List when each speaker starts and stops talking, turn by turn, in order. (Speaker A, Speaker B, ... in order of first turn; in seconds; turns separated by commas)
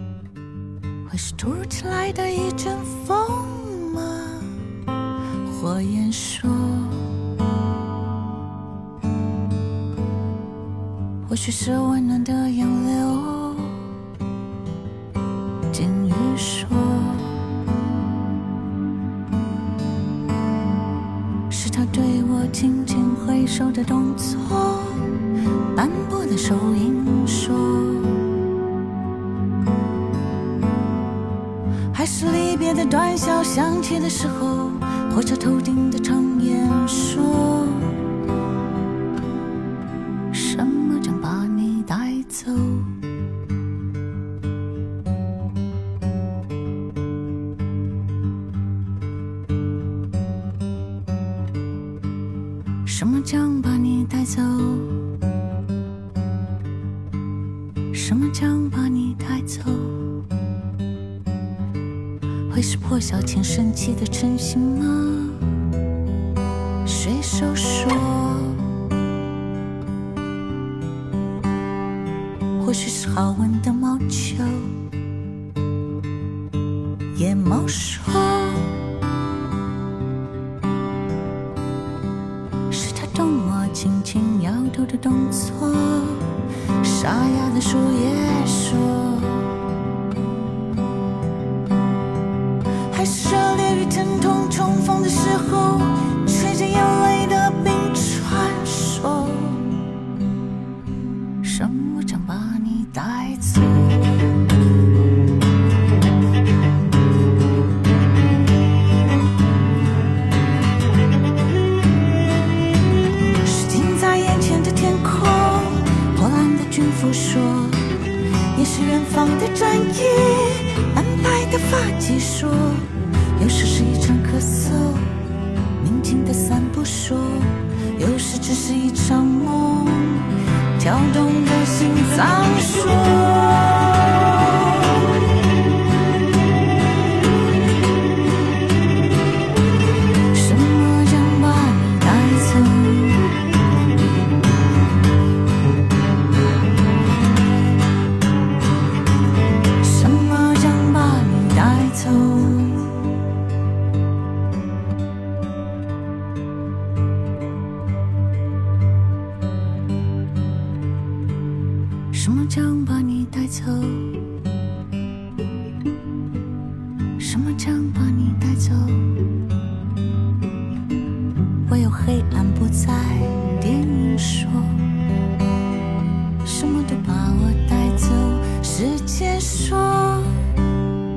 Speaker A: 1.1-4.6, Speaker A: 5.4-7.1, Speaker A: 11.2-13.9, Speaker A: 15.7-17.3, Speaker A: 21.5-25.2, Speaker A: 25.7-28.2, Speaker A: 31.9-38.0, Speaker A: 40.3-42.9, Speaker A: 52.9-55.0, Speaker A: 57.9-60.2, Speaker A: 62.5-65.4, Speaker A: 66.8-68.7, Speaker A: 72.6-74.8, Speaker A: 77.1-78.8, Speaker A: 82.7-89.5, Speaker A: 92.9-99.8, Speaker A: 101.4-104.0, Speaker A: 113.4-117.9, Speaker A: 118.5-125.1, Speaker A: 125.8-135.2, Speaker A: 140.3-143.2, Speaker A: 149.8-153.0, Speaker A: 162.1-164.3, Speaker A: 167.2-169.2, Speaker A: 171.7-174.8, Speaker A: 176.4-180.4